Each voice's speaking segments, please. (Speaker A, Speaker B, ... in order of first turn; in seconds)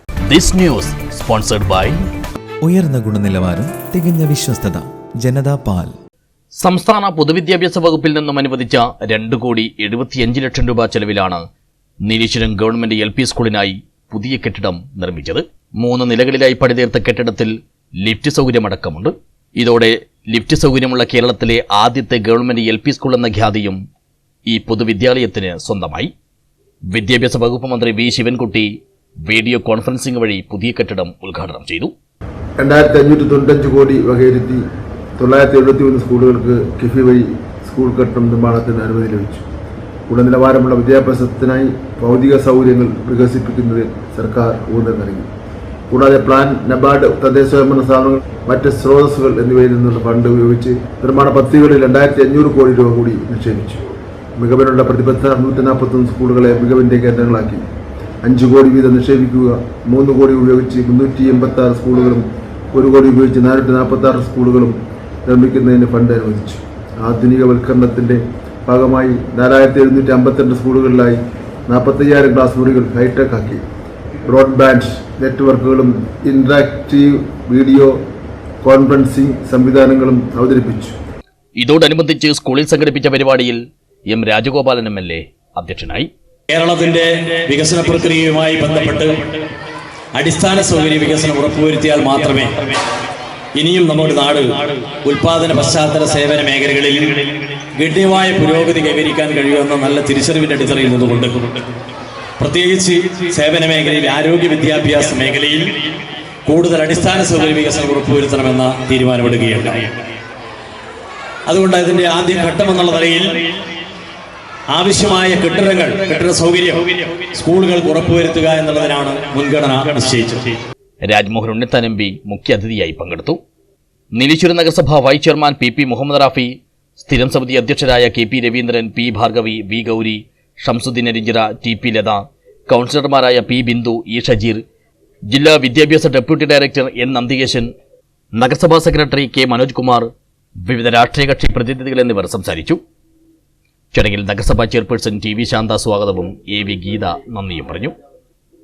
Speaker A: 0.3-2.0, 6.6-11.4, 12.1-23.8, 24.5-26.1, 26.9-28.7, 29.3-31.9, 81.6-86.1, 121.0-123.4, 124.1-134.6, 135.3-137.7, 138.3-140.1, 140.7-142.8, 143.9-148.0
Speaker B: 2.6-5.9
Speaker C: 32.6-34.6, 35.2-39.4, 40.1-45.3, 45.9-53.8, 54.4-57.6, 58.2-73.6, 74.3-78.0, 78.6-81.0
Speaker D: 86.5-89.3, 90.2-92.8, 93.6-101.6, 102.4-105.8, 106.5-109.9, 111.5-113.5, 114.7-120.6